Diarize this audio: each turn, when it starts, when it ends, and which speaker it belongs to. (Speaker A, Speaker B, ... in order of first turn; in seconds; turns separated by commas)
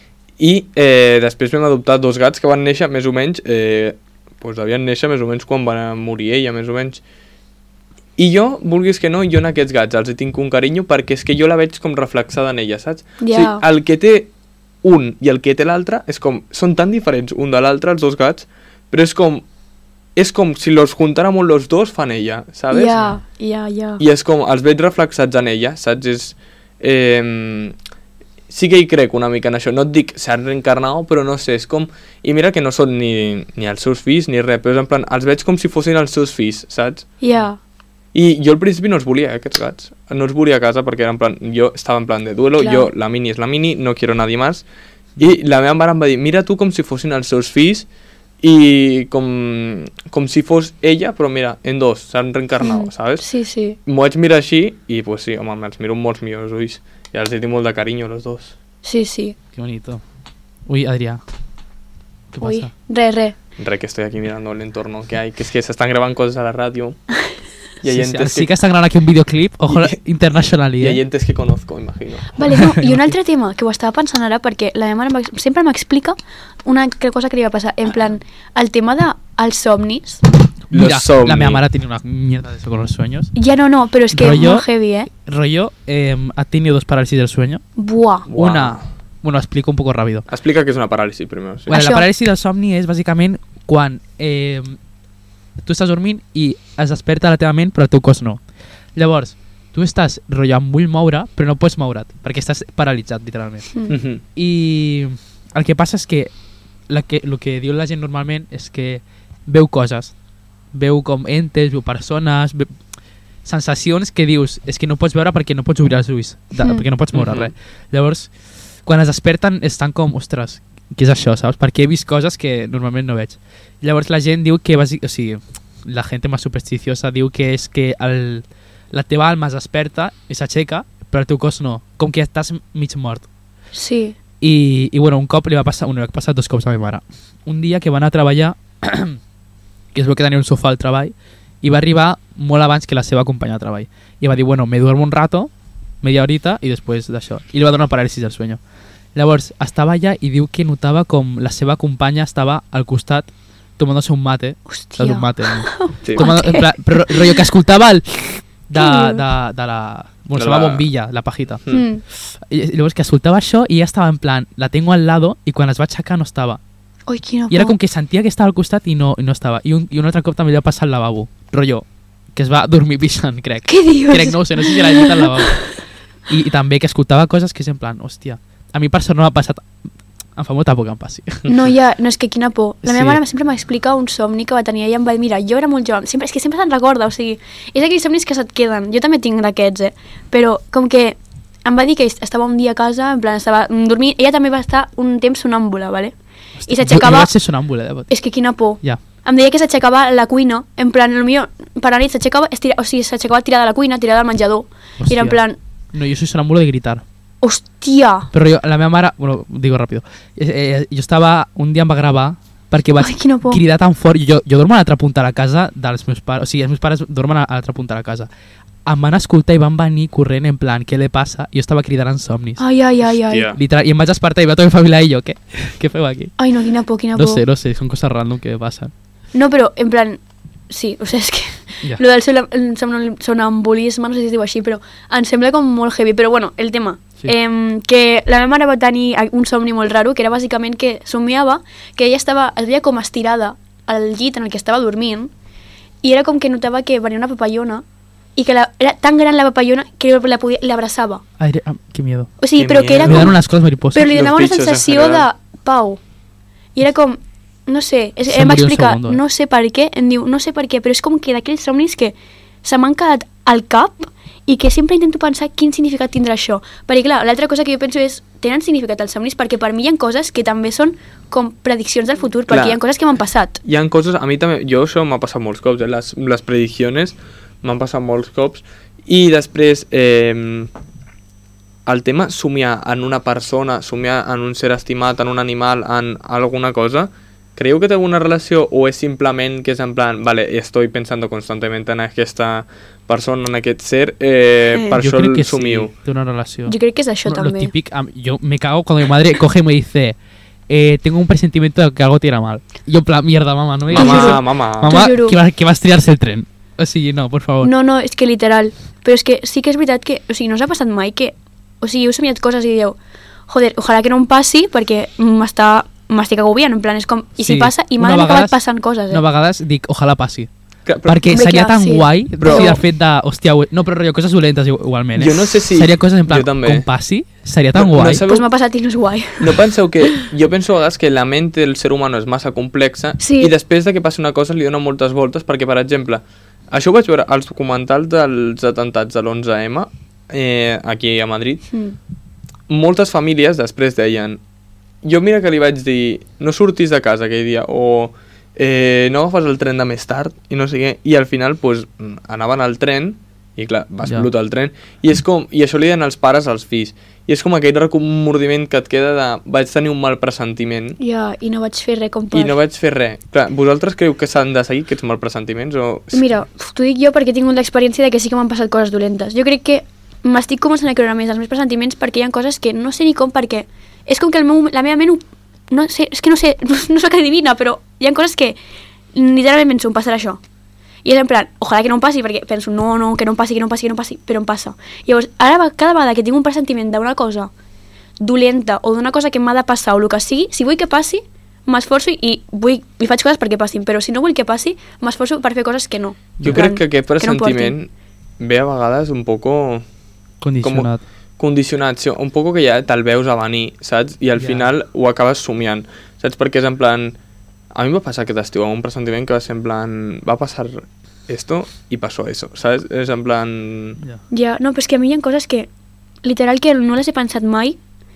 Speaker A: 0.4-7.0, Speaker A: 8.2-14.3, Speaker B: 13.2-13.6, Speaker A: 14.8-19.4, Speaker A: 20.1-23.0, Speaker B: 22.7-24.0, Speaker A: 24.0-27.8, Speaker A: 28.5-37.1, Speaker B: 37.2-37.6, Speaker A: 38.1-44.6, Speaker B: 42.6-42.9, Speaker A: 45.2-47.9, Speaker A: 48.4-53.3, Speaker B: 52.6-53.8, Speaker A: 53.8-58.5, Speaker B: 58.8-59.4, Speaker C: 59.5-60.0, Speaker C: 60.7-61.2, Speaker C: 62.3-62.7, Speaker B: 62.4-63.4, Speaker A: 63.6-67.0, Speaker A: 67.8-68.5, Speaker C: 67.8-71.0, Speaker A: 70.8-72.4, Speaker B: 72.3-80.2, Speaker C: 72.5-73.1, Speaker A: 80.7-81.6, Speaker C: 80.7-83.3, Speaker B: 83.3-85.1, Speaker C: 84.1-87.6, Speaker B: 87.8-88.3, Speaker A: 88.3-88.8, Speaker C: 88.3-90.2, Speaker A: 90.3-91.7, Speaker C: 91.7-94.8, Speaker B: 91.7-92.1, Speaker C: 95.6-98.4, Speaker C: 99.0-103.8, Speaker A: 103.9-104.2, Speaker C: 104.3-106.3, Speaker C: 106.9-110.1, Speaker C: 110.7-112.7, Speaker C: 113.4-118.3, Speaker B: 116.6-116.8, Speaker A: 117.1-117.5, Speaker C: 118.8-133.2, Speaker B: 133.7-134.2, Speaker C: 134.4-139.2, Speaker C: 139.9-145.5, Speaker C: 146.0-148.6, Speaker C: 149.1-161.6, Speaker B: 154.7-157.4, Speaker B: 158.7-159.2, Speaker A: 160.3-160.9, Speaker B: 161.7-162.0, Speaker C: 162.2-166.6, Speaker B: 167.1-167.8, Speaker C: 167.5-179.6, Speaker B: 173.7-175.5, Speaker C: 180.3-181.5, Speaker B: 181.5-196.1, Speaker C: 182.8-183.2, Speaker C: 196.6-198.1, Speaker B: 196.7-197.3, Speaker B: 198.1-205.6, Speaker C: 205.0-205.4, Speaker C: 205.9-207.0, Speaker B: 207.4-208.3, Speaker C: 208.3-218.3, Speaker B: 213.0-213.6, Speaker C: 218.8-222.6, Speaker B: 222.6-223.5, Speaker A: 223.3-223.6, Speaker C: 223.5-226.3, Speaker B: 226.4-227.4, Speaker C: 227.1-228.9, Speaker B: 229.3-245.3, Speaker B: 246.0-247.8, Speaker B: 248.3-251.2, Speaker C: 251.4-252.3, Speaker B: 252.4-253.4, Speaker A: 252.5-253.3, Speaker C: 253.0-254.1, Speaker B: 253.9-256.0, Speaker A: 254.0-255.2, Speaker B: 256.7-273.6, Speaker C: 258.3-259.2, Speaker A: 272.5-272.8, Speaker A: 273.6-280.7, Speaker A: 281.9-295.9, Speaker C: 294.9-300.1, Speaker B: 296.6-297.7, Speaker C: 300.7-307.7, Speaker A: 303.9-305.0, Speaker B: 303.9-305.4, Speaker B: 307.6-313.0, Speaker B: 313.5-319.2, Speaker C: 317.4-318.6, Speaker C: 319.1-320.5, Speaker A: 320.9-321.3, Speaker C: 321.1-328.2, Speaker B: 321.3-322.8, Speaker A: 322.4-322.8, Speaker A: 325.1-326.9, Speaker A: 327.7-328.4, Speaker B: 328.2-330.2, Speaker A: 329.4-341.7, Speaker B: 333.2-333.5, Speaker B: 341.7-342.0, Speaker A: 342.7-344.4, Speaker A: 345.0-361.0, Speaker B: 361.0-362.6, Speaker A: 362.3-366.2, Speaker B: 366.1-378.6, Speaker B: 379.1-380.4, Speaker B: 381.0-387.5, Speaker B: 388.2-397.7, Speaker C: 396.4-396.6, Speaker A: 396.4-399.8, Speaker C: 400.4-401.0, Speaker A: 400.6-407.2, Speaker C: 404.4-404.7, Speaker A: 407.7-414.0, Speaker B: 414.3-415.7, Speaker B: 416.2-417.8